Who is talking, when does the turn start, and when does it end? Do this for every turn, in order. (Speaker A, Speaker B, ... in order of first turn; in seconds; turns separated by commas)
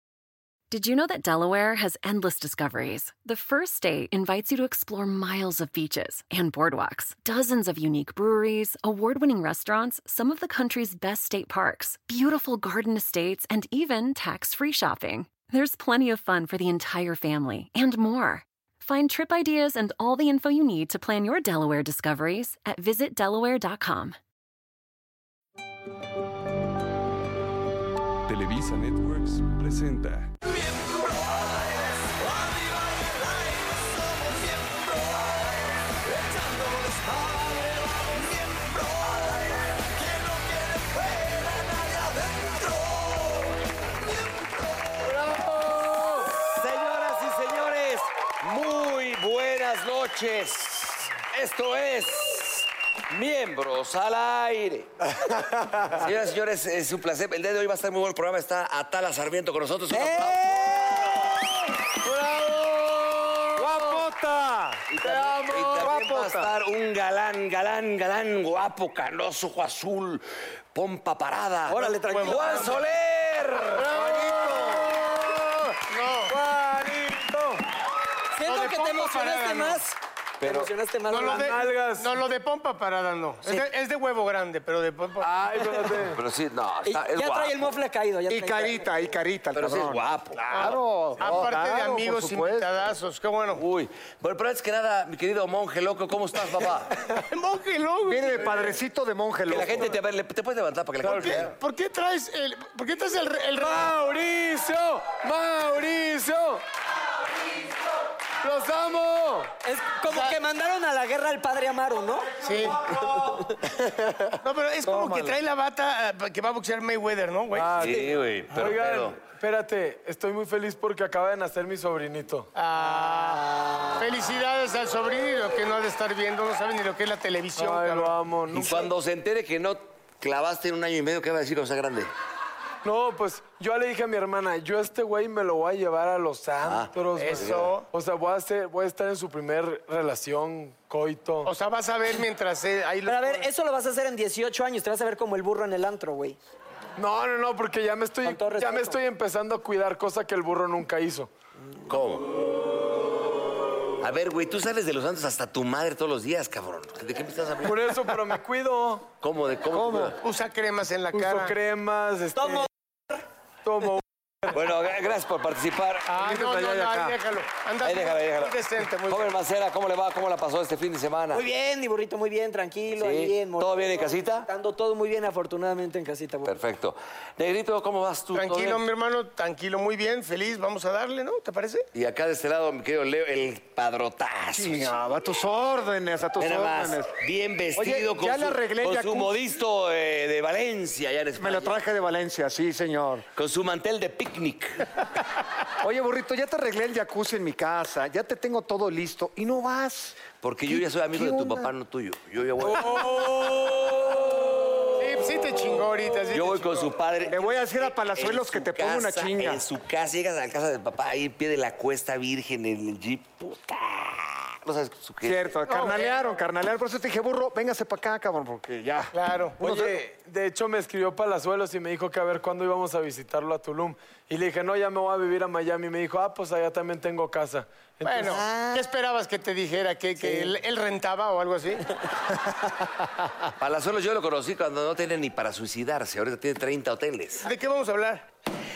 Speaker A: 0.7-24.2, Speaker B: 28.2-30.3, Speaker C: 45.1-46.3, Speaker D: 46.1-54.9, Speaker E: 55.5-55.8, Speaker D: 56.0-61.4, Speaker F: 59.9-61.0, Speaker C: 62.0-64.0, Speaker E: 63.5-65.0, Speaker D: 64.9-73.9, Speaker C: 65.0-65.9, Speaker E: 65.5-66.5, Speaker F: 71.7-72.8, Speaker G: 71.7-72.8, Speaker E: 73.7-75.0, Speaker C: 73.9-75.7, Speaker G: 75.9-76.3, Speaker C: 76.3-77.6, Speaker F: 78.4-81.5, Speaker G: 78.4-79.8, Speaker D: 80.4-80.7, Speaker G: 81.1-86.0, Speaker C: 81.2-82.1, Speaker C: 85.2-86.2, Speaker D: 86.1-87.7, Speaker F: 86.8-88.8, Speaker E: 88.3-90.0, Speaker D: 89.5-91.5, Speaker G: 90.5-93.6, Speaker E: 90.5-92.8, Speaker D: 93.6-96.9, Speaker G: 97.3-98.8, Speaker E: 98.0-99.9, Speaker D: 99.5-101.5, Speaker C: 101.0-101.4, Speaker G: 101.0-103.9, Speaker C: 103.6-106.6, Speaker C: 108.4-109.5, Speaker F: 109.6-112.3, Speaker G: 112.4-112.9, Speaker F: 113.1-113.4, Speaker G: 114.4-117.7, Speaker E: 114.8-115.3, Speaker C: 117.5-122.5, Speaker D: 117.8-119.2, Speaker G: 122.5-128.1, Speaker C: 127.5-128.9, Speaker D: 128.5-132.1, Speaker C: 132.8-141.5, Speaker D: 136.6-137.7, Speaker G: 137.2-137.8, Speaker G: 141.4-143.5, Speaker F: 143.1-146.4, Speaker C: 147.0-151.3, Speaker F: 148.2-148.9, Speaker D: 151.9-152.3, Speaker D: 154.0-158.1, Speaker C: 157.6-159.1, Speaker D: 159.2-160.2, Speaker E: 159.7-160.2, Speaker G: 160.2-161.5, Speaker C: 161.1-162.7, Speaker F: 162.4-162.7, Speaker C: 163.6-164.5, Speaker D: 164.5-166.1, Speaker G: 166.1-169.3, Speaker E: 166.1-167.2, Speaker D: 167.8-171.4, Speaker F: 171.3-176.5, Speaker D: 172.9-174.5, Speaker D: 176.4-178.8, Speaker G: 178.3-181.9, Speaker D: 181.9-184.9, Speaker E: 184.5-187.2, Speaker D: 186.4-191.8, Speaker E: 187.7-189.3, Speaker E: 191.4-193.3, Speaker D: 193.3-194.9, Speaker E: 195.8-201.7, Speaker D: 200.4-203.7, Speaker C: 202.6-203.8, Speaker G: 205.0-206.9, Speaker D: 206.3-215.6, Speaker E: 207.3-209.6, Speaker E: 215.2-219.1, Speaker G: 215.7-216.1, Speaker G: 219.1-219.7, Speaker C: 219.6-228.4, Speaker G: 228.0-231.9, Speaker E: 228.4-228.8, Speaker D: 233.6-237.5, Speaker G: 237.4-238.2